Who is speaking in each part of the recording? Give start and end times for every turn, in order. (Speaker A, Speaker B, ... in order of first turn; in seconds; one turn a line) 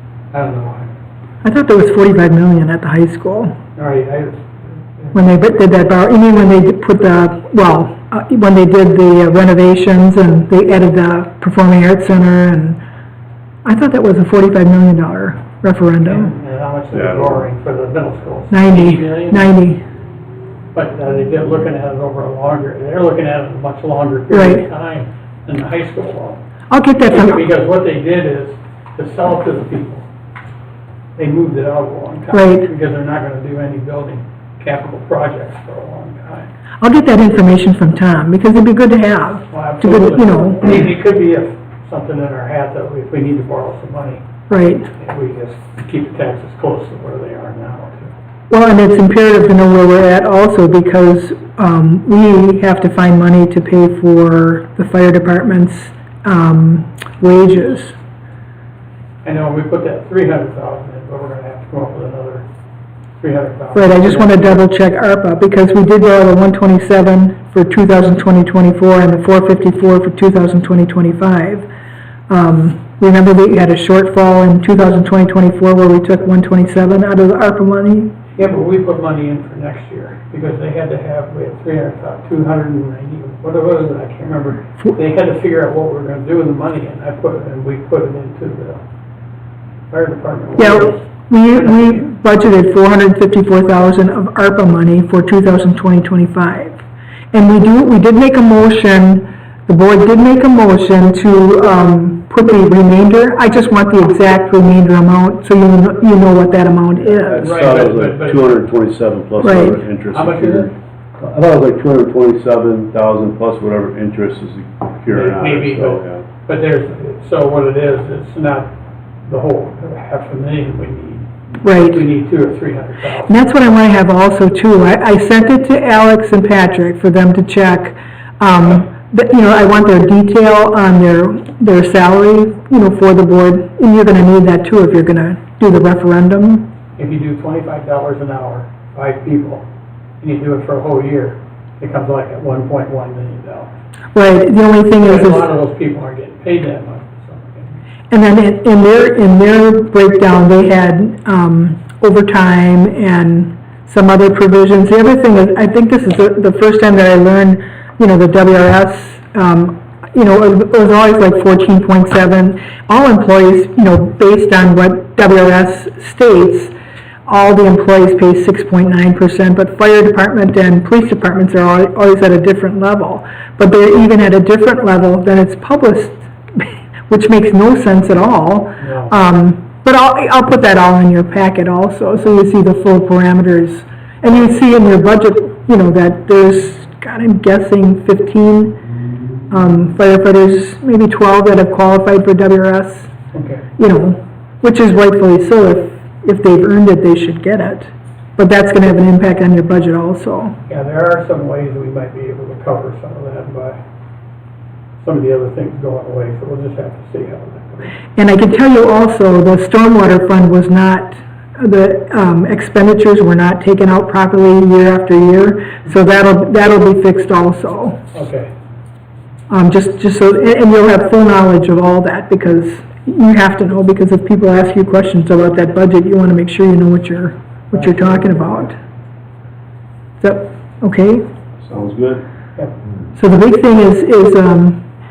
Speaker A: 0.3-0.9
Speaker B: 1.4-3.5
Speaker A: 3.8-5.1
Speaker B: 5.1-12.8
Speaker B: 13.6-16.3
Speaker A: 16.0-19.5
Speaker C: 16.9-17.4
Speaker B: 18.5-19.8
Speaker A: 20.7-26.4
Speaker B: 24.3-24.6
Speaker B: 26.7-27.4
Speaker A: 27.1-30.0
Speaker A: 31.2-36.5
Speaker B: 32.3-32.7
Speaker B: 36.8-40.6
Speaker A: 39.5-44.2
Speaker B: 44.5-44.9
Speaker A: 44.9-48.1
Speaker B: 48.5-58.0
Speaker A: 59.2-62.4
Speaker A: 63.2-64.7
Speaker B: 63.7-71.7
Speaker B: 72.3-78.1
Speaker A: 78.3-88.8
Speaker A: 89.9-92.0
Speaker B: 90.6-96.8
Speaker B: 97.3-107.4
Speaker C: 107.1-116.2
Speaker A: 107.3-108.6
Speaker B: 109.4-109.8
Speaker A: 110.1-110.7
Speaker A: 115.1-118.7
Speaker A: 119.3-123.3
Speaker B: 121.6-122.0
Speaker B: 123.3-136.7
Speaker A: 137.0-139.6
Speaker A: 140.2-143.7
Speaker B: 144.1-145.5
Speaker A: 145.0-147.7
Speaker B: 148.1-166.7
Speaker B: 167.3-188.8
Speaker A: 178.8-179.1
Speaker B: 189.5-193.1
Speaker A: 193.3-193.6
Speaker B: 193.8-200.6
Speaker A: 200.7-203.8
Speaker A: 205.0-208.0
Speaker B: 208.2-218.0
Speaker A: 218.1-218.5
Speaker B: 219.5-228.8
Speaker A: 227.7-228.7
Speaker B: 230.2-231.2
Speaker C: 231.6-232.2
Speaker B: 233.1-234.8